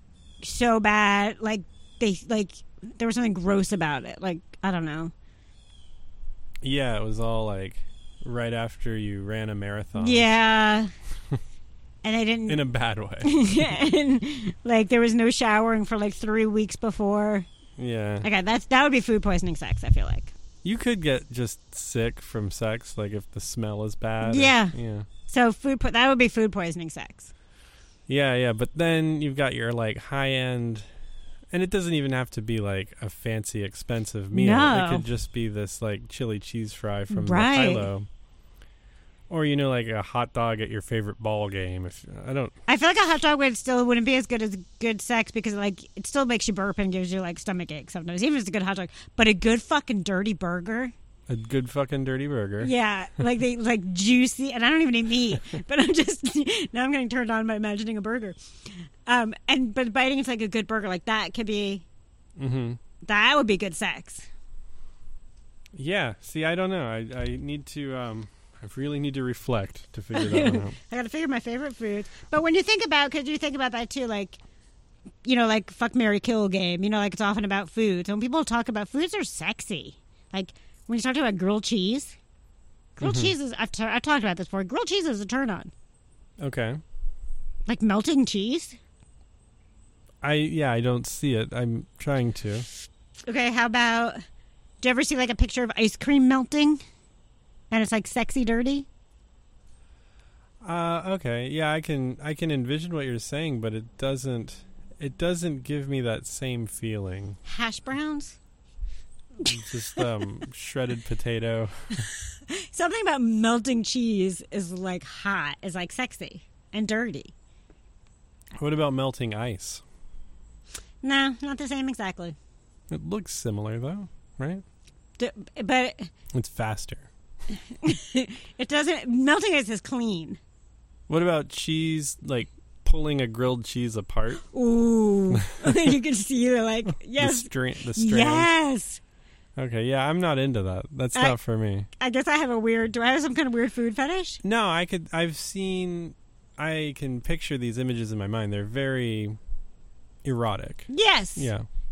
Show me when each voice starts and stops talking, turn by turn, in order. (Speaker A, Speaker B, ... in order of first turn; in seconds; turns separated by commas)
Speaker A: 0.4-5.1, Speaker B: 6.6-10.3, Speaker A: 10.0-10.9, Speaker A: 12.0-12.6, Speaker B: 12.5-13.8, Speaker A: 13.2-17.5, Speaker B: 17.8-18.3, Speaker A: 18.2-20.3, Speaker B: 20.6-25.1, Speaker A: 24.2-24.8, Speaker A: 25.3-27.3, Speaker B: 28.1-30.9, Speaker B: 31.5-38.1, Speaker A: 34.3-35.0, Speaker A: 37.1-37.9, Speaker B: 39.3-42.5, Speaker A: 42.7-50.9, Speaker B: 51.3-52.7, Speaker A: 52.6-61.9, Speaker B: 62.4-62.8, Speaker A: 63.0-64.3, Speaker B: 65.7-70.8, Speaker A: 70.1-74.4, Speaker A: 75.2-82.2, Speaker A: 83.0-85.7, Speaker B: 83.0-83.3, Speaker B: 86.4-86.8, Speaker A: 87.7-88.8, Speaker B: 90.2-92.7, Speaker A: 93.3-94.2, Speaker A: 94.8-96.8, Speaker A: 97.7-98.9, Speaker B: 100.6-107.4, Speaker A: 107.5-108.4, Speaker B: 109.4-112.1, Speaker A: 109.5-110.1, Speaker A: 112.3-117.3, Speaker B: 118.5-119.8, Speaker A: 121.0-122.4, Speaker B: 122.9-124.6, Speaker A: 125.2-126.1, Speaker B: 126.3-127.1, Speaker A: 127.5-130.4, Speaker B: 131.1-134.4, Speaker A: 134.5-139.0, Speaker B: 135.3-136.0, Speaker B: 137.2-138.5, Speaker B: 139.6-141.9, Speaker A: 142.0-144.4, Speaker B: 144.4-149.4, Speaker B: 150.2-151.7, Speaker A: 150.9-151.5